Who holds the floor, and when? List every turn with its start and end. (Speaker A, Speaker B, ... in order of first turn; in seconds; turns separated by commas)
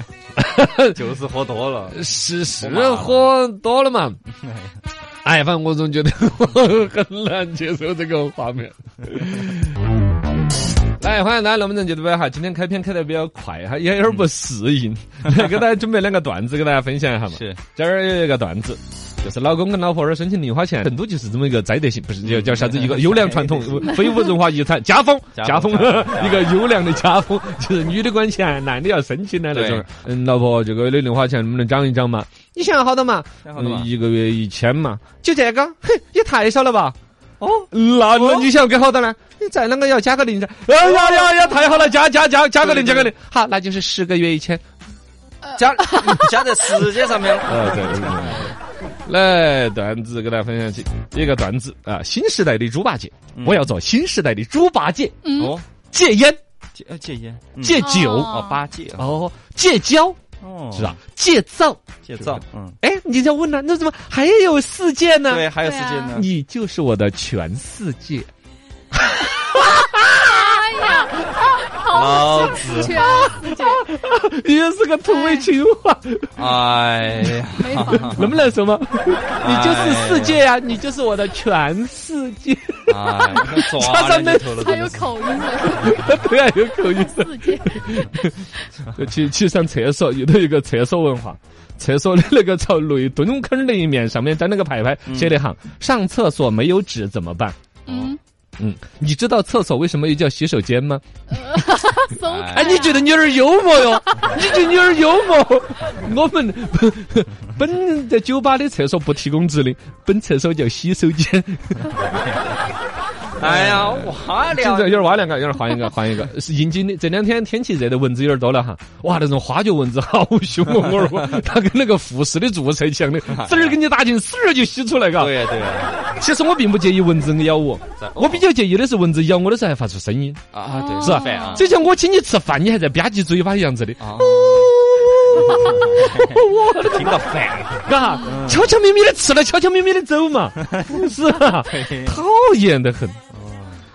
Speaker A: 0.3-0.9, Speaker B: 0.9-2.0, Speaker A: 1.9-4.2, Speaker B: 2.6-3.3, Speaker B: 4.4-4.7, Speaker A: 5.2-9.8, Speaker A: 11.0-37.0, Speaker B: 17.3-17.6, Speaker B: 22.2-24.0, Speaker C: 24.0-24.3, Speaker B: 25.3-26.5, Speaker B: 29.5-29.9, Speaker B: 33.4-33.9, Speaker B: 37.4-38.5, Speaker A: 37.7-44.6, Speaker C: 41.0-41.9, Speaker B: 42.6-43.1, Speaker C: 45.4-46.4, Speaker B: 45.5-48.5, Speaker A: 47.4-48.5, Speaker A: 49.0-55.2, Speaker B: 53.3-53.7, Speaker C: 55.2-55.5, Speaker B: 55.4-55.6, Speaker A: 55.9-56.4, Speaker B: 56.8-59.1, Speaker A: 57.6-58.4, Speaker C: 57.7-58.6, Speaker A: 59.0-60.2, Speaker B: 60.4-61.0, Speaker A: 60.7-65.5, Speaker B: 62.0-62.8, Speaker B: 65.3-66.3, Speaker C: 65.6-66.2, Speaker A: 66.1-68.3, Speaker A: 68.9-70.5, Speaker C: 70.3-73.8, Speaker B: 71.9-73.0, Speaker A: 73.0-76.5, Speaker C: 75.0-75.5, Speaker B: 76.3-78.3, Speaker A: 77.2-84.6, Speaker C: 77.6-78.3, Speaker B: 79.4-80.4, Speaker B: 82.9-85.1, Speaker C: 84.3-86.0, Speaker A: 85.8-88.3, Speaker C: 86.8-88.3, Speaker A: 88.9-97.5, Speaker B: 95.1-95.4, Speaker C: 97.8-98.2, Speaker B: 97.9-98.1, Speaker A: 98.6-101.0, Speaker C: 101.3-104.6, Speaker B: 102.2-102.9, Speaker A: 102.5-111.9, Speaker B: 111.9-112.6, Speaker B: 113.4-115.3, Speaker A: 113.4-125.4, Speaker B: 123.3-123.8, Speaker B: 125.2-126.0, Speaker A: 126.2-130.4, Speaker B: 128.0-128.4, Speaker B: 130.5-131.7, Speaker C: 130.7-131.7, Speaker A: 131.0-143.2, Speaker B: 134.0-134.7, Speaker B: 135.3-138.7, Speaker C: 138.0-138.5, Speaker B: 141.5-142.2, Speaker B: 143.3-143.8